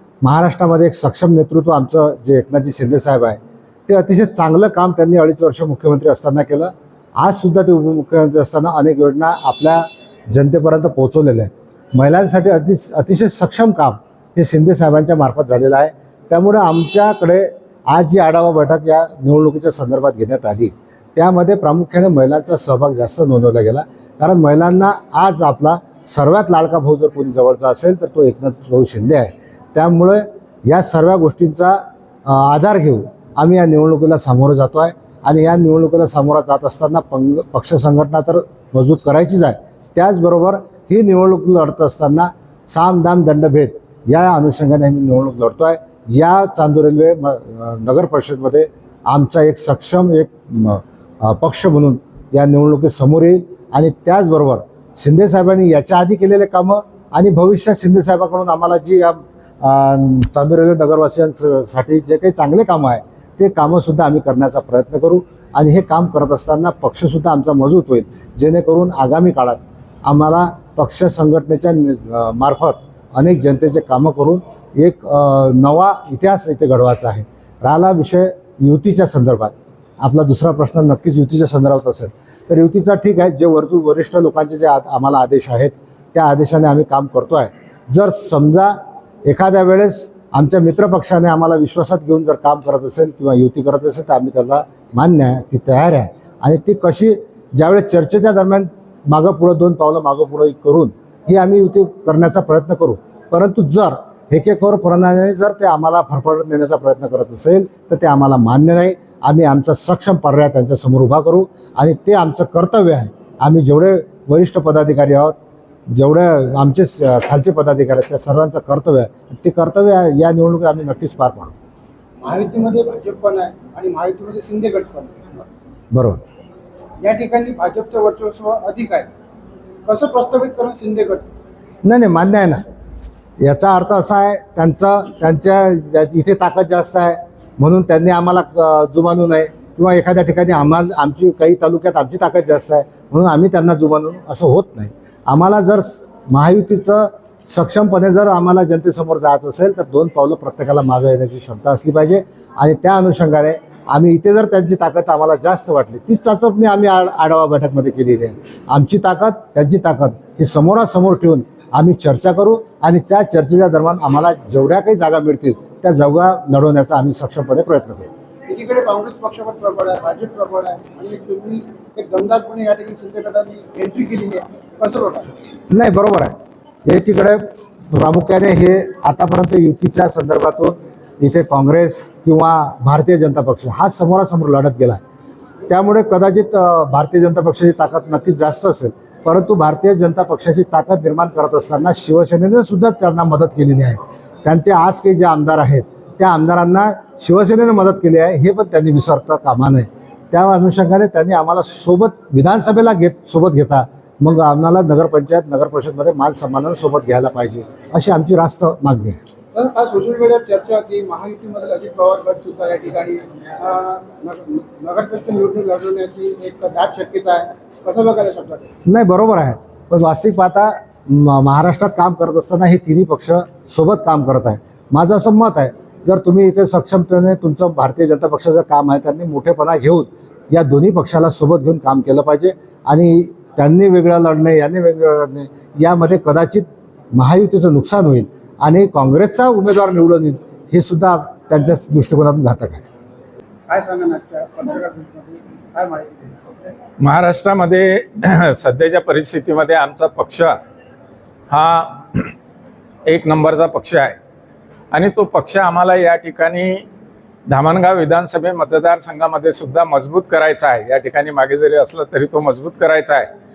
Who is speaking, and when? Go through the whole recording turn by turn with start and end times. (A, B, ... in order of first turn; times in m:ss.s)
0:00.2-1:55.4 A
1:55.9-2:01.5 A
2:02.2-2:05.1 B
2:05.9-2:06.2 A
2:07.0-2:09.1 B
2:09.9-2:11.2 B
2:11.8-2:12.6 A
2:13.4-2:48.1 A
2:48.5-2:55.3 B
2:55.7-2:56.3 A
2:56.8-3:05.0 A
3:05.7-3:29.2 A
3:29.5-3:38.7 B
3:38.9-4:02.8 A
4:03.7-4:06.3 B
4:07.0-4:10.6 C
4:11.5-4:12.3 C
4:13.1-4:14.2 C
4:14.9-4:16.8 C
4:17.5-4:23.3 C